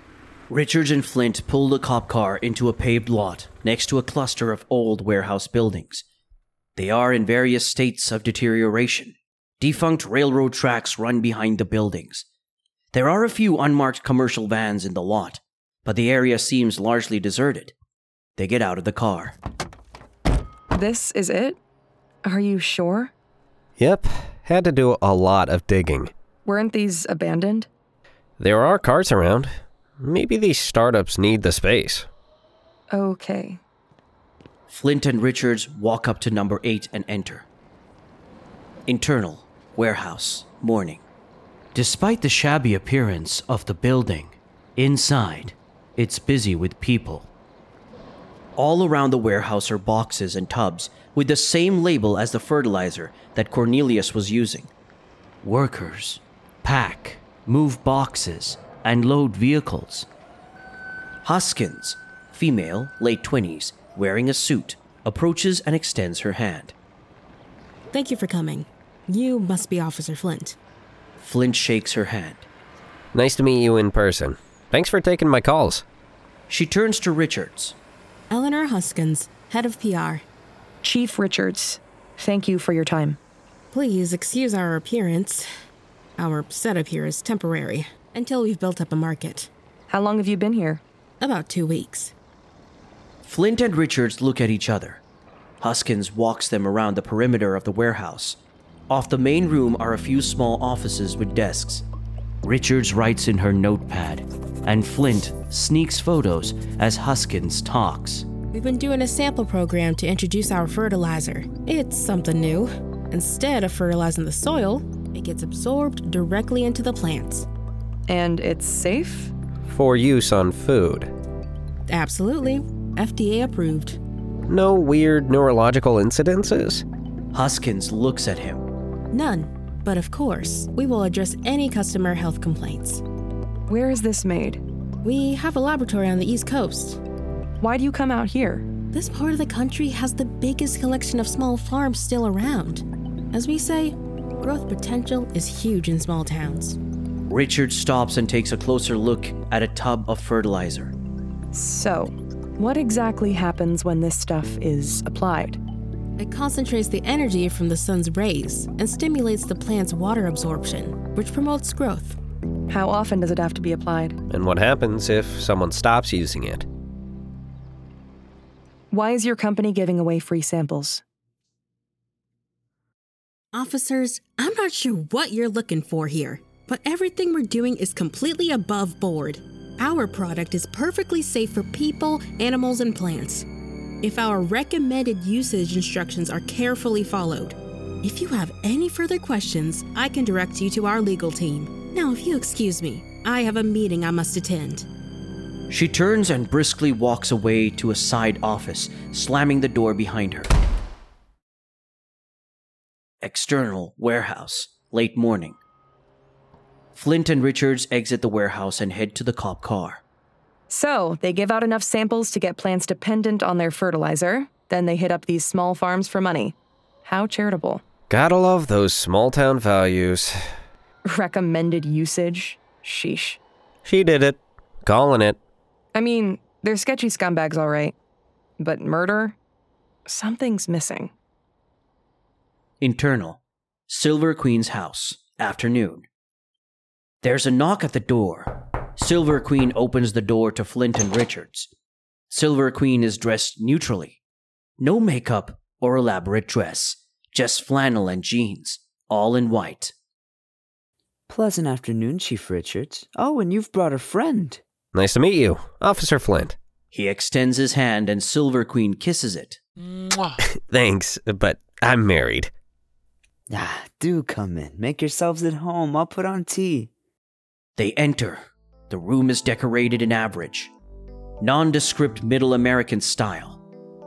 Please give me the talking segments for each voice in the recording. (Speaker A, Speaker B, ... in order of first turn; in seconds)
Speaker A: 0.5-6.0, 6.8-12.3, 12.9-17.7, 18.4-19.4, 34.7-37.5, 38.9-41.0, 41.8-47.3, 48.6-54.7, 55.4-60.1, 61.2-66.8, 71.2-72.5, 76.5-77.8, 93.2-95.0, 95.6-101.8, 102.4-108.3, 127.3-128.6, 147.3-150.9, 195.7-200.5, 203.2-205.6, 206.9-210.0, 232.8-236.1, 237.2-241.7, 242.3-244.2, 244.8-249.9, 256.9-259.6, 267.8-270.7, 271.4-273.6
Speaker B: 20.7-21.6, 22.2-23.1, 26.5-27.7, 32.9-33.6, 80.8-83.2, 89.9-90.8, 118.1-119.3, 133.7-134.6, 137.6-138.7, 151.5-155.6, 162.7-164.2, 168.9-171.0, 210.7-217.8, 221.1-223.4, 225.9-228.0, 228.6-229.4, 230.1-231.1
Speaker C: 23.8-26.1, 28.4-32.1, 73.1-75.8, 119.7-121.1, 124.5-126.8, 164.3-166.7, 218.1-220.4, 223.8-225.4, 254.9-256.6, 260.4-262.5
Speaker D: 67.9-70.6, 78.3-80.2, 83.7-85.5, 86.2-89.5, 91.2-92.1, 108.5-117.5, 121.9-124.0, 129.1-133.0, 135.0-137.0, 138.9-146.8, 156.2-162.2, 173.5-183.5, 184.0-194.9
Speaker E: 251.3-254.6, 263.5-266.9